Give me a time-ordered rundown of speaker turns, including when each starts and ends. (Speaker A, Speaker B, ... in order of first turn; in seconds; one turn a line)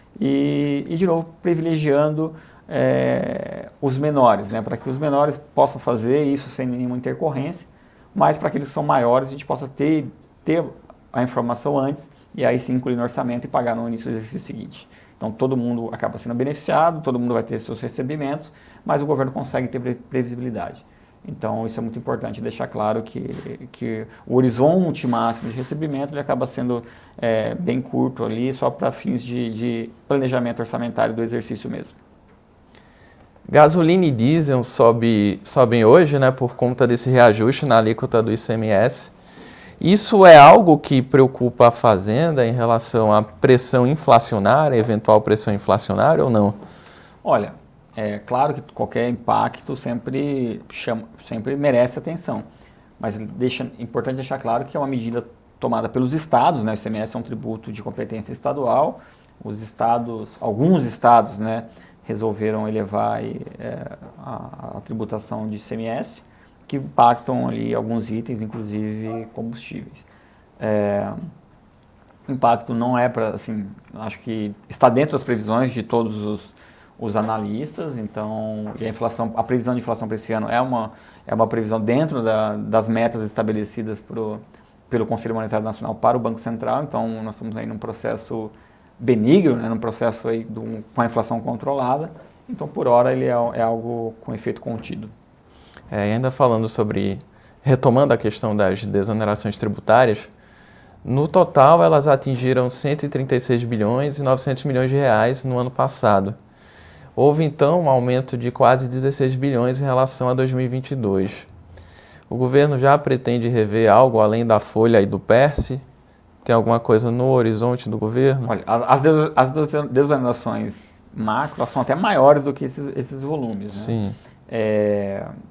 Speaker A: 0.2-32.0
Speaker B: 33.5-39.1
Speaker B: 39.8-46.6
Speaker A: 47.2-52.5
Speaker A: 53.0-70.1
Speaker A: 70.6-71.2
Speaker A: 72.3-95.1
Speaker B: 95.9-100.3
Speaker B: 101.0-106.3
Speaker B: 107.2-111.5
Speaker B: 112.3-115.8
Speaker B: 116.4-118.5
Speaker A: 118.5-124.0
Speaker B: 123.7-124.2
Speaker A: 124.5-125.3